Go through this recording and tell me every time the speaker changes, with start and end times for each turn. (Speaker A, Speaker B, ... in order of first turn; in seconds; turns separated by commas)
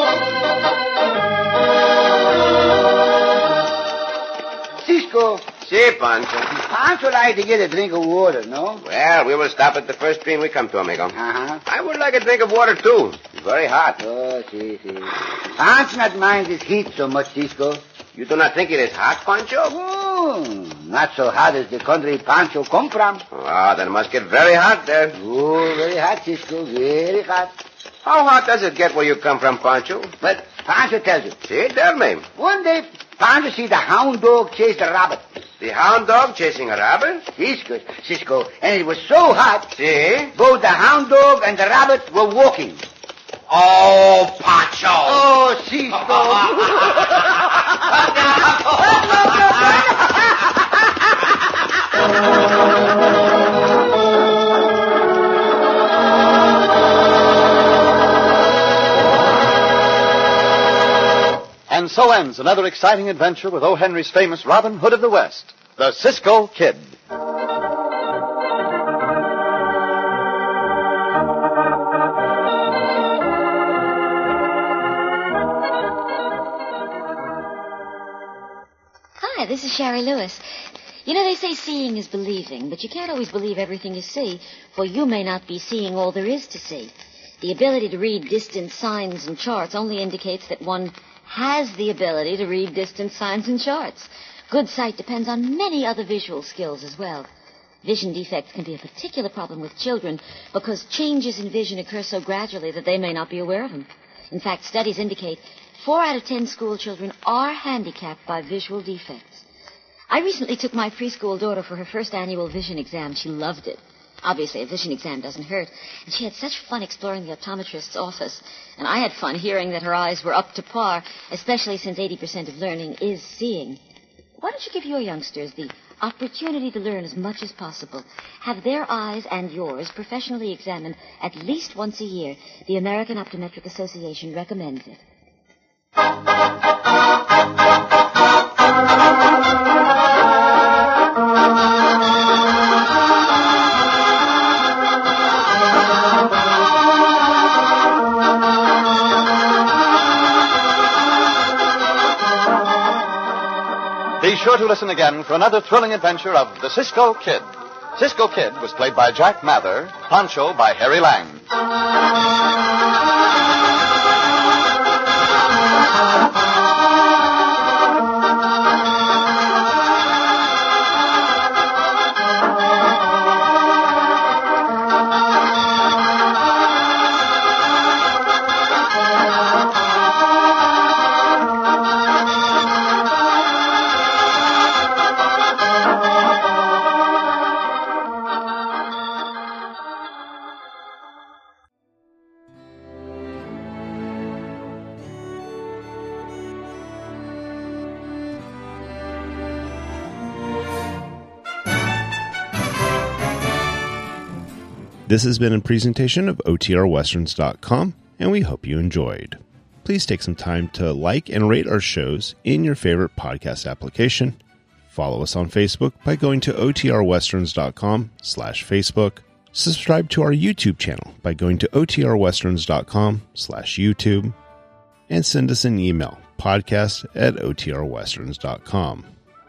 Speaker A: 4.8-5.5, Speaker B: 5.6-6.5, Speaker A: 6.5-8.8, Speaker B: 8.8-11.2, Speaker A: 11.1-11.6, Speaker B: 11.7-14.0, Speaker A: 14.0-17.8, Speaker B: 18.1-19.7, Speaker A: 19.7-23.2, Speaker B: 23.3-25.1, Speaker A: 25.1-27.5, Speaker B: 28.0-30.1, Speaker A: 30.2-31.4, Speaker B: 31.4-32.2, Speaker A: 32.4-35.2, Speaker B: 35.6-37.2, Speaker A: 37.4-39.7, Speaker B: 39.8-40.3, Speaker A: 40.3-42.8, Speaker B: 43.5-45.2, Speaker A: 45.0-47.1, Speaker B: 45.9-47.2, Speaker B: 48.0-49.7, Speaker C: 61.7-66.9, Speaker D: 79.2-80.4, Speaker D: 81.0-97.3, Speaker D: 97.8-109.4, Speaker D: 110.1-123.8, Speaker D: 124.4-135.0, Speaker C: 154.2-161.4, Speaker E: 205.1-214.4, Speaker E: 214.9-224.3, Speaker E: 225.1-229.1